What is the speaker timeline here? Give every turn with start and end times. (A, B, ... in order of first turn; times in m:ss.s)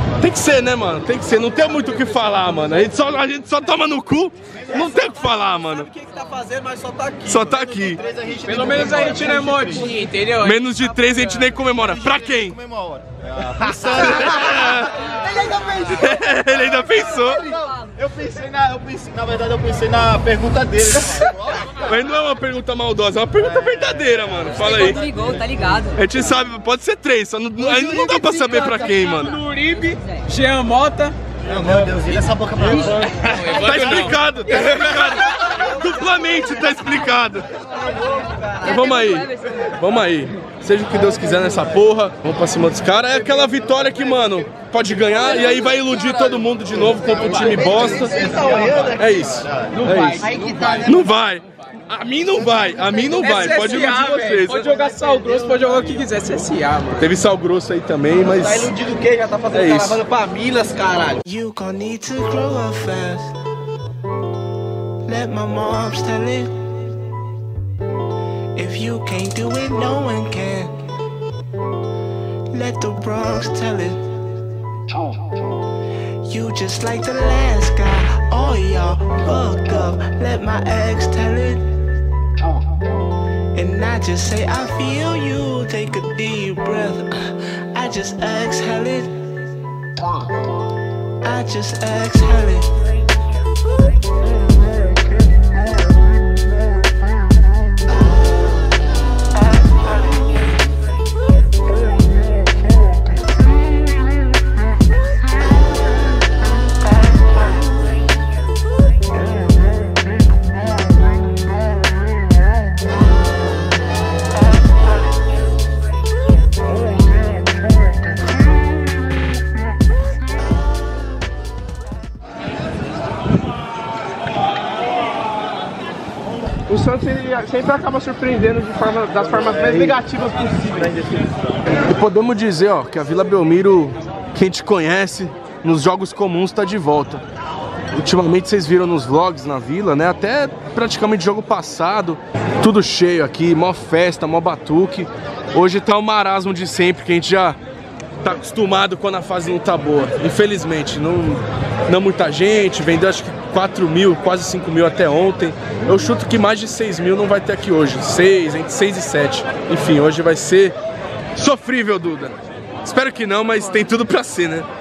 0:00.2-0:05.9 A
0:05.6-0:08.2 B
0:07.2-0:08.0 A
0:07.5-0:10.0 C
0:08.4-0:10.6 D
0:10.3-0:12.6 A
0:11.8-0:16.6 C
0:13.9-0:15.2 A
0:15.8-0:17.5 A
0:17.2-0:21.7 C
0:21.7-0:25.1 A
0:25.2-0:25.9 E
0:25.9-0:29.4 A
0:27.6-0:31.1 D
0:31.5-0:33.0 C
0:32.7-0:34.0 D
0:33.4-0:37.5 A
0:37.8-0:38.7 B
0:38.6-0:48.4 A
0:47.4-0:49.6 B
0:48.2-0:48.6 D
0:49.0-0:54.9 A
0:49.7-0:50.9 D
0:50.2-0:51.0 B
0:53.1-0:56.9 D
0:53.2-0:56.6 E
0:56.9-0:58.7 A
0:58.3-1:01.2 B
0:59.5-1:00.0 A
1:01.2-1:03.4 F
1:05.0-1:06.7 F
1:08.5-1:10.8 F
1:12.5-1:14.1 F
1:16.2-1:21.7 F
1:23.5-1:29.3 F
1:31.2-1:32.7 F
2:06.7-2:11.3 D
2:11.8-2:17.2 A
2:17.9-2:27.6 A
2:28.2-2:40.8 A
2:41.3-2:44.7 A